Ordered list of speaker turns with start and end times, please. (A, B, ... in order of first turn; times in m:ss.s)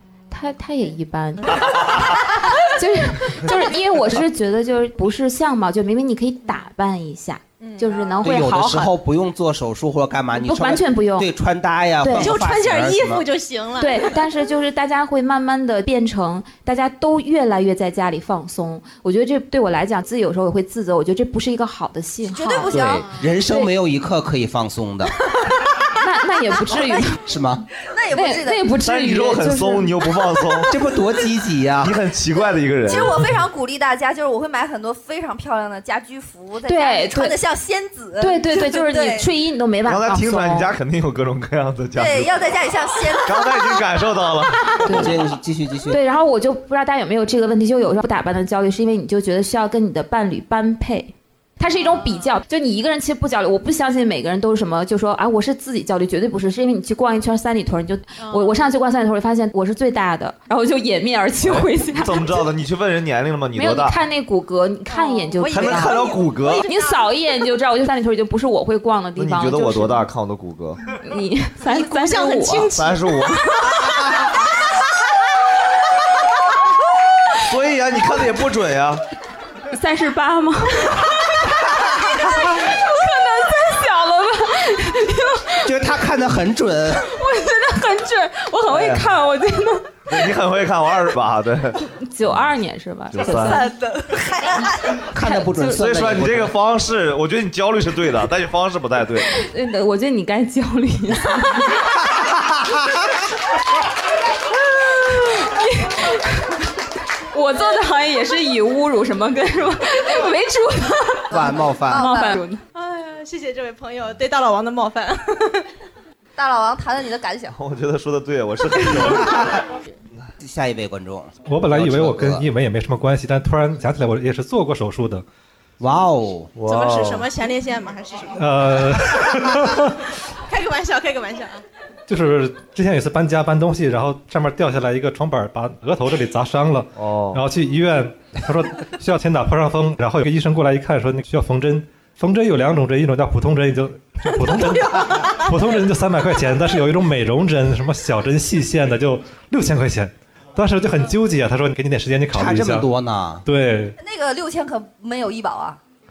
0:00.3-0:01.6 A
0:01.4-0:02.7 B
0:01.5-0:02.0 C
0:02.7-0:08.9 A
0:07.6-0:08.3 B
0:08.2-0:13.2 D
0:10.3-0:11.3 A
0:12.0-0:12.4 A
0:12.1-0:14.2 B
0:13.8-0:22.8 A
0:22.2-0:23.1 E
0:22.7-0:25.1 D
0:23.4-0:23.7 A
0:26.0-0:27.2 A
0:27.2-0:27.6 D
0:27.8-0:28.7 E
0:28.1-0:29.9 A
0:28.8-0:30.7 C
0:30.7-0:32.0 D
0:31.8-0:33.2 C
0:32.8-0:39.3 E
0:36.6-0:37.4 A
0:38.2-0:40.7 A
0:39.8-0:42.5 C
0:42.0-0:43.8 E
0:43.2-0:44.6 C
0:44.8-0:45.2 A
0:44.8-0:46.0 D
0:45.9-1:02.4 A
0:51.7-0:52.4 B
0:58.2-0:58.6 B
1:01.4-1:04.0 C
1:03.6-1:06.1 A
1:04.9-1:07.1 B
1:05.5-1:06.6 C
1:06.6-1:10.1 A
1:09.2-1:10.8 C
1:11.0-1:12.7 A
1:11.6-1:14.5 B
1:12.7-1:13.9 C
1:17.4-1:19.0 C
1:19.7-1:21.1 A
1:21.8-1:25.7 A
1:25.6-1:27.0 D
1:26.9-1:30.2 A
1:28.7-1:29.1 C
1:30.1-1:32.5 C
1:32.0-1:33.8 A
1:33.1-1:33.6 C
1:33.3-1:34.5 B
1:35.1-1:36.5 D
1:35.2-1:35.9 A
1:35.8-1:39.4 C
1:39.4-1:41.8 A
1:44.8-1:46.4 A
1:47.3-1:52.6 A
1:51.3-1:52.1 D
1:51.3-1:52.4 E
1:52.7-1:55.6 B
1:56.4-1:57.5 E
1:57.5-1:59.5 C
2:00.4-2:02.5 D
2:01.4-2:05.2 F
2:05.8-2:06.5 D
2:06.6-2:07.3 C
2:06.6-2:08.5 B
2:08.3-2:09.9 F
2:10.5-2:11.6 B
2:12.1-2:32.9 F
2:17.0-2:17.4 C
2:25.0-2:25.4 B
2:32.3-2:33.4 D
2:33.4-2:34.0 F
2:34.0-2:35.8 E